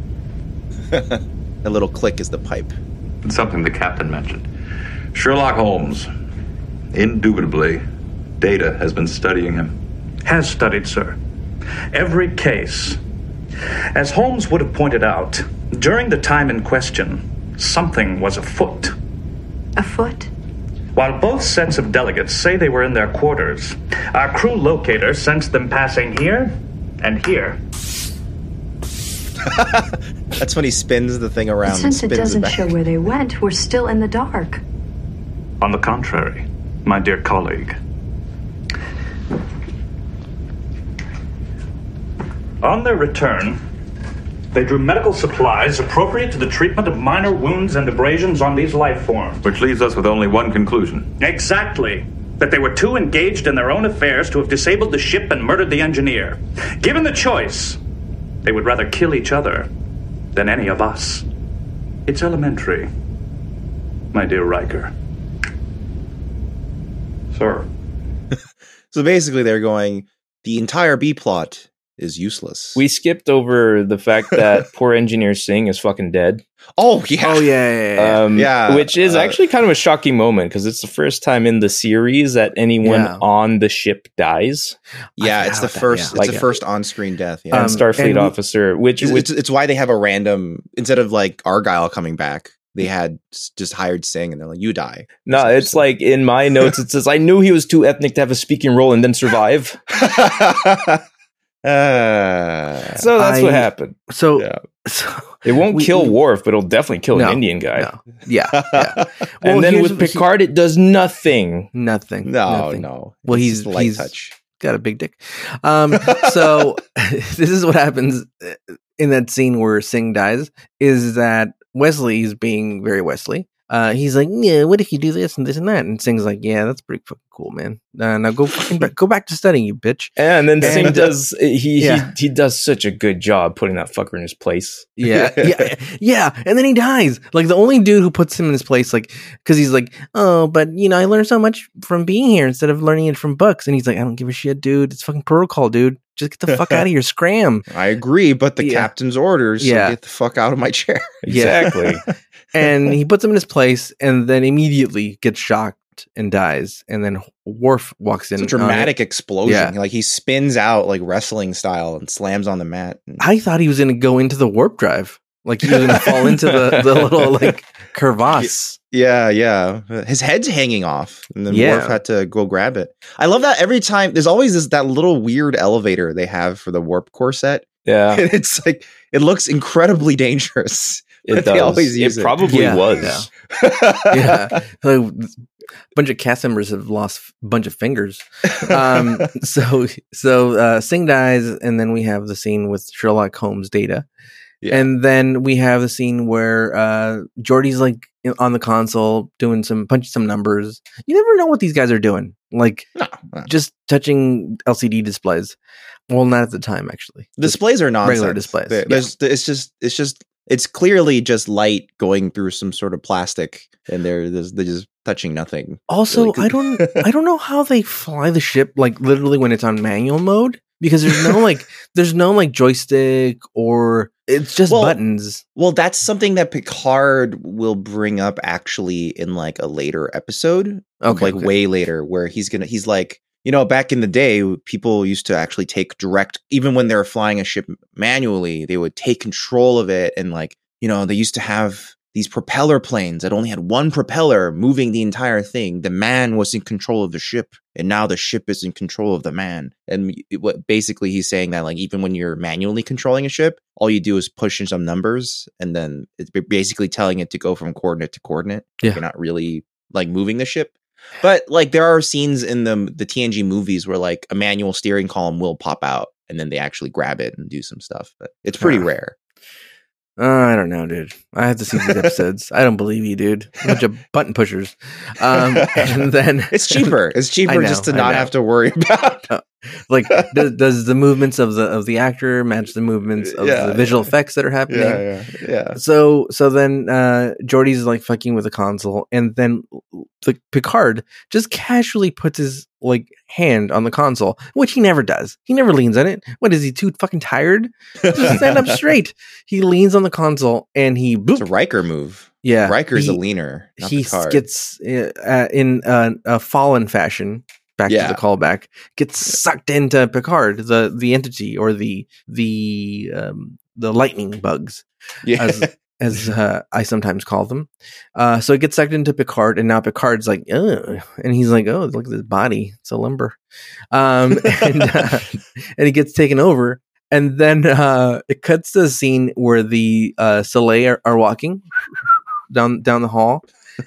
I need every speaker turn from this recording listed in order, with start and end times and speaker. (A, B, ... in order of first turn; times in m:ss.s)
0:00.9-0:02.7 A
0:03.2-0:04.4 B
0:05.1-0:06.1 B
0:06.9-0:07.8 B
0:08.4-0:09.8 B
0:10.2-0:11.2 C
0:11.9-0:13.0 C
0:13.9-0:18.9 C
0:19.8-0:20.3 D
0:20.9-0:27.6 C
0:29.4-0:32.7 A
0:31.6-0:34.6 D
0:35.6-0:37.8 C
0:42.6-0:43.6 C
0:44.5-0:49.4 C
0:49.4-0:51.1 B
0:51.2-0:57.8 C
0:58.4-0:59.7 C
1:00.3-1:01.2 C
1:02.1-1:02.9 C
1:04.1-1:04.9 C
1:07.3-1:07.7 C
1:08.9-1:12.8 A
1:12.8-1:16.4 E
1:16.8-1:17.6 A
1:17.2-1:18.2 F
1:18.0-1:24.8 E
1:18.3-1:19.4 A
1:22.8-1:23.2 F
1:25.2-1:27.8 A
1:25.2-1:26.4 F
1:26.1-1:26.4 E
1:27.5-1:28.3 F
1:27.5-1:29.3 E
1:29.0-1:35.8 A
1:35.2-1:39.8 E
1:39.9-1:41.0 A
1:41.6-1:43.0 A
1:43.0-1:44.0 E
1:43.1-1:46.1 F
1:45.4-1:47.9 E
1:47.1-1:50.3 F
1:48.5-1:49.1 A
1:49.4-1:51.7 E
1:51.7-2:11.1 F
1:52.2-1:54.3 A
1:55.9-1:56.7 A
2:10.2-2:15.0 E
2:10.7-2:10.9 A
2:11.8-2:12.1 F
2:15.0-2:27.7 F
2:15.1-2:15.7 A
2:26.5-2:26.8 A
2:27.7-2:31.2 A
2:28.6-2:28.9 F
2:29.6-2:30.0 F
2:31.2-2:32.0 E
2:31.3-2:31.7 F
2:32.5-2:38.9 F
2:38.4-2:43.2 A
2:39.4-2:39.7 F
2:43.2-2:48.8 F
2:48.4-3:02.8 A
2:51.5-2:52.0 F
2:57.8-2:58.2 E
3:01.2-3:03.2 E
3:02.4-3:03.3 F
3:03.5-3:04.5 A
3:04.1-3:05.4 F
3:05.9-3:14.0 F
3:08.6-3:09.2 A
3:14.6-3:14.9 A
3:14.7-3:22.9 F
3:23.0-3:23.5 A
3:23.4-3:25.5 F
3:26.1-3:29.1 F
3:27.4-3:37.0 A
3:35.9-3:45.4 F
3:41.1-3:41.4 A
3:44.7-3:45.0 A
3:45.6-4:29.2 A
3:51.0-3:51.5 F
4:30.2-4:36.9 F
4:31.8-4:32.1 A
4:35.3-4:39.3 A
4:37.4-4:38.3 F
4:39.3-4:45.0 F
4:43.2-4:44.1 A
4:44.7-4:45.8 A
4:45.7-5:01.5 F
4:58.0-4:58.8 A
5:01.4-5:04.4 A
5:02.4-5:03.2 F
5:03.8-5:14.8 F
5:07.9-5:08.2 A
5:15.2-5:15.7 A
5:15.4-5:23.4 F
5:23.9-5:31.6 F
5:32.5-5:33.4 F